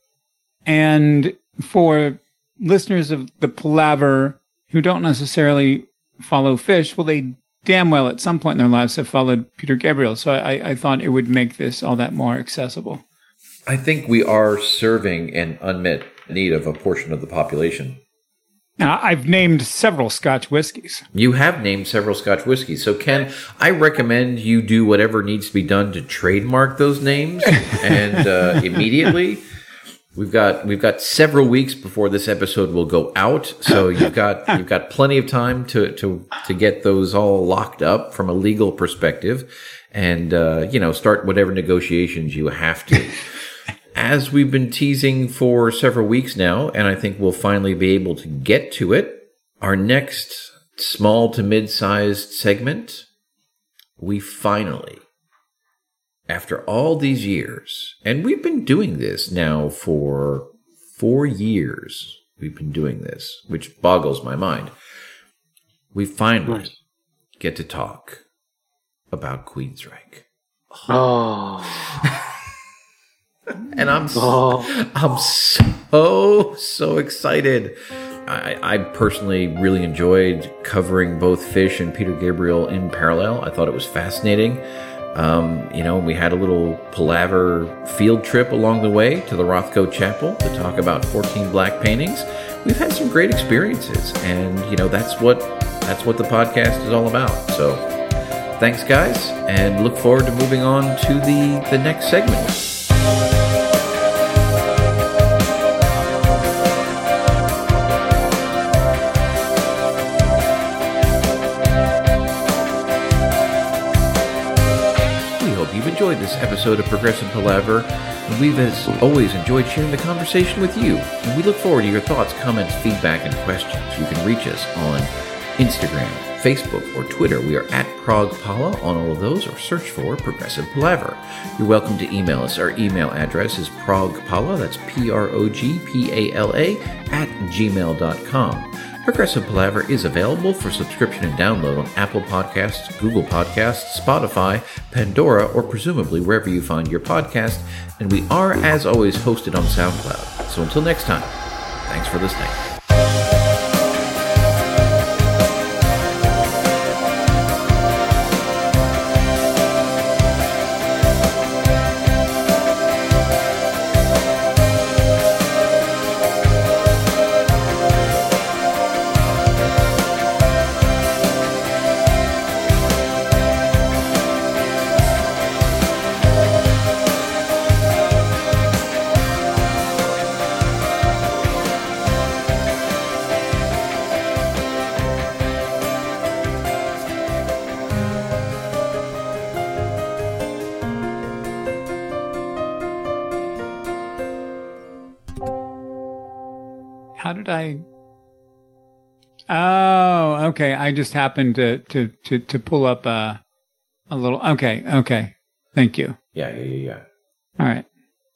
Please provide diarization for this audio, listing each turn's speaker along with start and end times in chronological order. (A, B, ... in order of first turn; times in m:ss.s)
0:00.6-0:13.0 A
0:13.7-0:18.0 B
0:18.8-0:21.1 A
0:21.1-0:29.4 B
0:30.1-0:53.1 B
0:54.0-0:55.0 B
0:56.3-1:04.7 B
1:05.9-1:06.7 B
1:06.5-1:06.7 C
1:07.4-1:08.2 B
1:09.1-1:10.9 B
1:10.9-1:11.9 C
1:12.0-1:12.3 B
1:13.6-1:24.6 B
1:14.1-1:14.7 C
1:25.1-1:37.9 B
1:38.6-1:42.7 B
1:55.4-2:31.4 B
2:31.8-2:32.6 B
3:17.2-3:17.8 A
3:19.5-3:23.4 A
3:24.1-3:26.2 A
3:26.4-3:27.0 B
3:27.6-3:27.8 A